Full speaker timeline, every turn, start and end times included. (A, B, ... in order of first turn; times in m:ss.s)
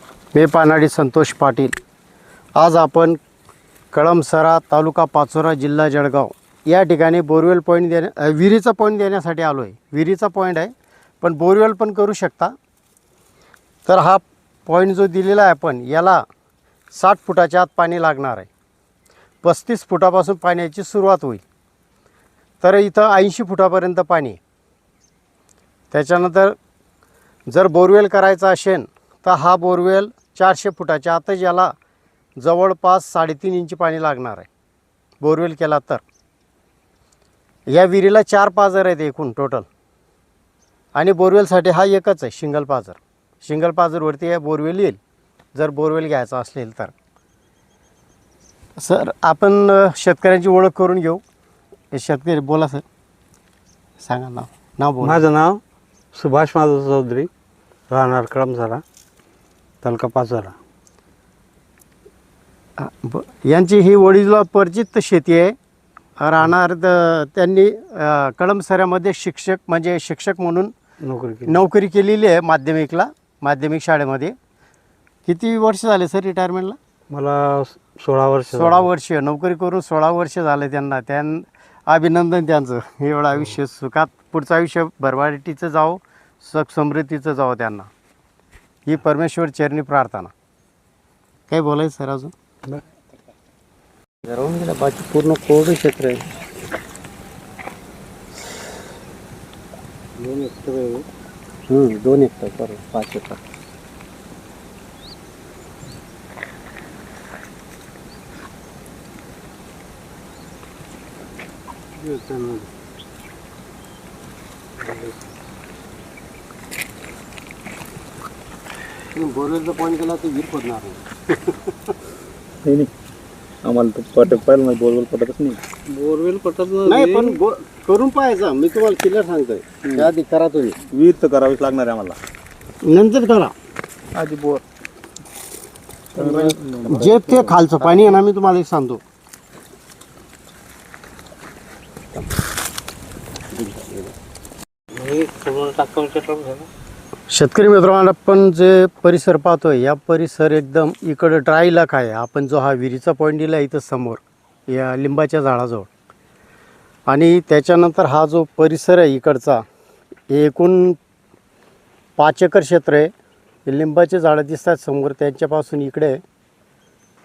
0:00.3-0:01.8 A
0:02.6-0:03.2 A
0:03.9-0:12.6 A
0:13.9-0:16.2 A
0:16.9-0:18.5 A
0:19.4-0:21.4 A
0:22.6-0:24.4 A
0:25.9-0:26.6 A
0:27.5-0:31.7 A
0:32.4-0:34.5 A
0:35.2-0:36.0 A
0:37.7-0:39.7 A
0:41.0-0:45.0 A
0:45.6-0:46.9 A
0:48.8-0:51.2 A
0:51.9-0:52.8 A
0:54.0-0:55.2 A
0:55.0-0:55.6 B
0:56.1-0:57.3 B
0:57.9-0:58.8 B
0:59.8-1:00.6 B
1:02.8-1:05.6 A
1:06.2-1:10.7 A
1:11.0-1:11.6 B
1:11.5-1:14.4 A
1:15.3-1:16.8 A
1:17.1-1:18.9 B
1:18.5-1:27.9 A
1:28.9-1:30.3 A
1:31.5-1:32.3 A
1:34.3-1:36.2 A
1:40.2-1:41.0 B
1:41.7-1:43.4 A
1:52.0-1:52.7 A
1:59.1-2:01.7 A
2:02.6-2:02.9 C
2:03.6-2:05.6 C
2:05.9-2:07.3 B
2:06.8-2:10.8 A
2:10.9-2:12.2 C
2:12.8-2:13.5 A
2:14.2-2:14.6 C
2:16.2-2:17.5 C
2:16.2-2:16.5 B
2:16.9-2:19.0 A
2:23.6-2:24.1 A
2:25.0-2:26.7 B
2:27.3-2:35.9 A
2:37.1-2:39.6 A
2:40.3-2:41.0 A
2:42.2-2:43.1 A
2:43.7-2:46.2 A